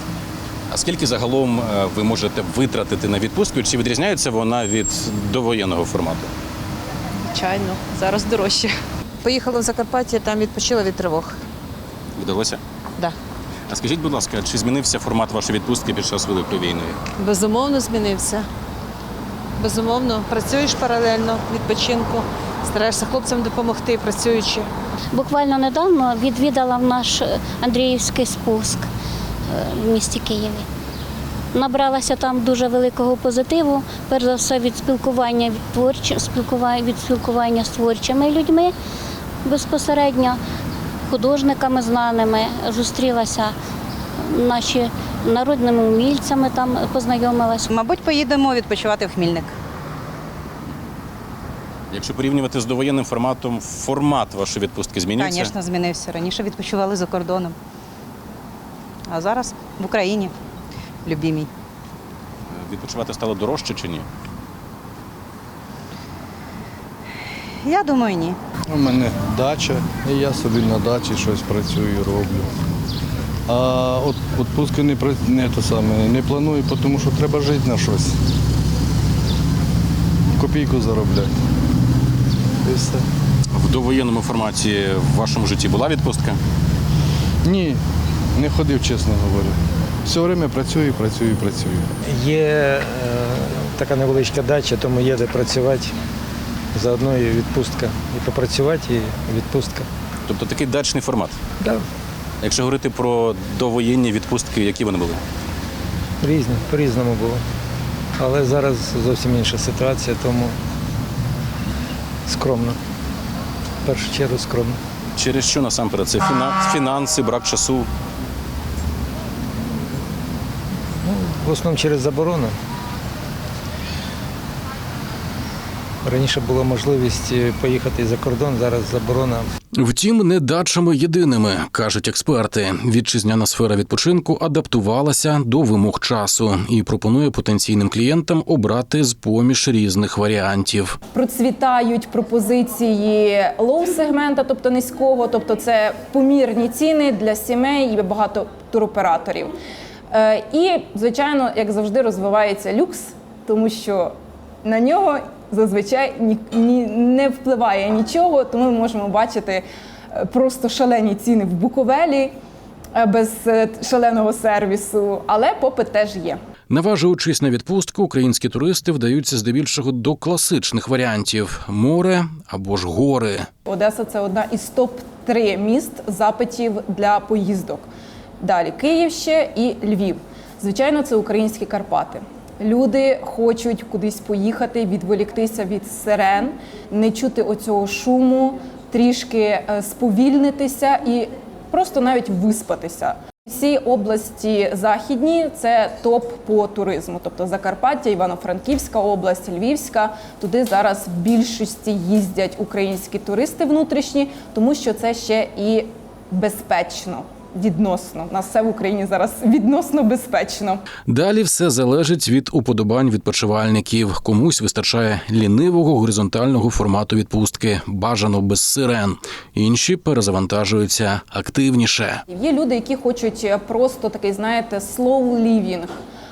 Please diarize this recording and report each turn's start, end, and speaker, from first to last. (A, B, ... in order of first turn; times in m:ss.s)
0:00.7-0:06.3 A
0:07.3-0:11.4 B
0:12.2-0:12.6 A
0:13.7-0:17.0 A
0:17.2-0:18.5 B
0:19.6-0:24.7 B
0:25.1-0:28.9 C
0:29.5-0:30.7 C
0:31.5-0:38.7 C
0:39.4-0:40.4 C
0:41.1-0:43.5 C
0:44.2-0:47.7 C
0:47.7-0:49.5 D
0:51.9-0:55.5 A
0:55.2-0:57.6 D
0:59.1-1:00.3 D
1:01.0-1:01.5 D
1:02.5-1:04.1 A
1:07.6-1:08.4 D
1:08.7-1:12.5 E
1:13.5-1:18.2 E
1:20.4-1:21.3 E
1:22.6-1:23.1 E
1:23.5-1:26.4 A
1:27.4-1:27.8 E
1:28.4-1:31.9 E
1:32.1-1:35.9 F
1:36.7-1:39.9 F
1:40.3-1:41.4 A
1:42.4-1:45.2 A
1:46.2-1:47.4 F
1:48.2-1:50.6 F
1:52.3-1:52.8 F
1:53.8-1:54.8 F
1:55.2-1:57.9 A
2:01.0-2:02.5 F
2:06.0-2:09.5 F
2:09.8-2:21.0 A
2:21.1-2:29.5 G
2:30.1-2:34.1 G
2:34.6-2:42.3 G
2:43.0-2:46.4 G
2:46.7-2:53.5 A
2:53.7-2:57.9 G
2:58.4-3:30.9 G
3:31.1-3:42.2 A
3:42.3-3:45.9 G